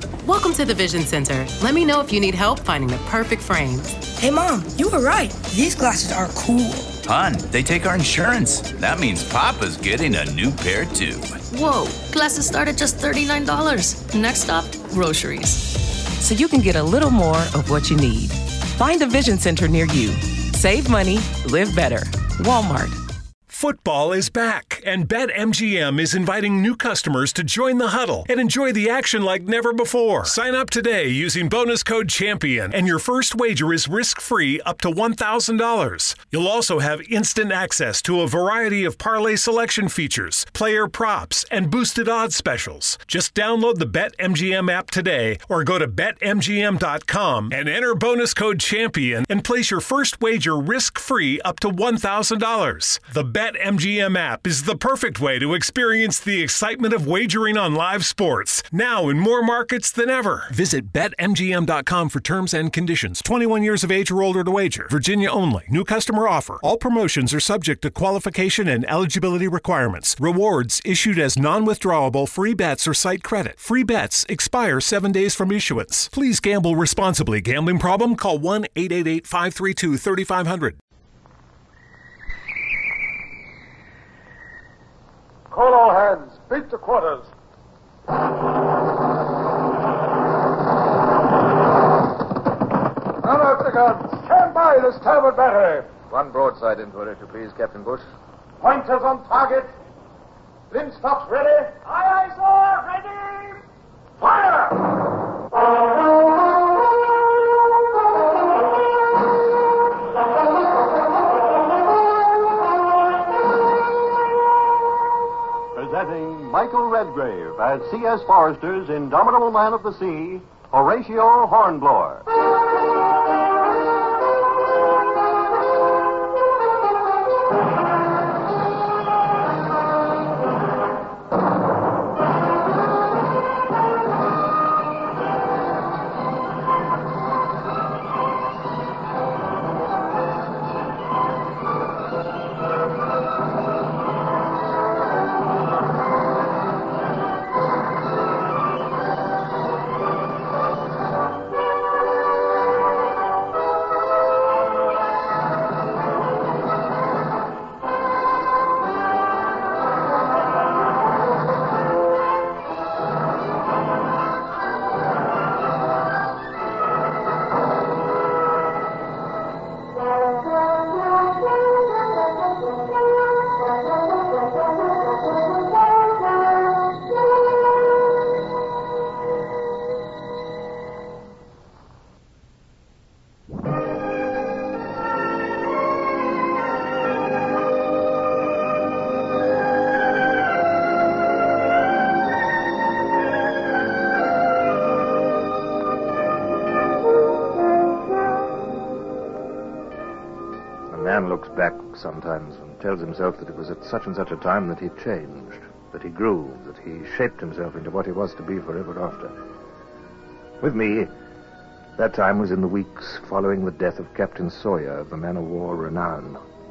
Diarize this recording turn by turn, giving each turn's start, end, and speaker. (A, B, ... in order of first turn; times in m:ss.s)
0:00.2-0:04.1 A
0:04.1-0:07.0 B
0:07.0-0:11.4 C
0:11.5-0:15.7 D
0:16.2-0:23.0 E
0:23.5-1:20.8 F
1:25.5-1:27.3 G
1:33.2-1:35.9 G
1:36.1-1:38.0 H
1:38.6-1:39.7 G
1:40.7-1:43.5 G
1:44.2-1:44.7 G
1:55.8-2:02.2 I
3:20.9-3:29.3 H
3:30.6-3:31.1 H
3:32.0-3:36.4 H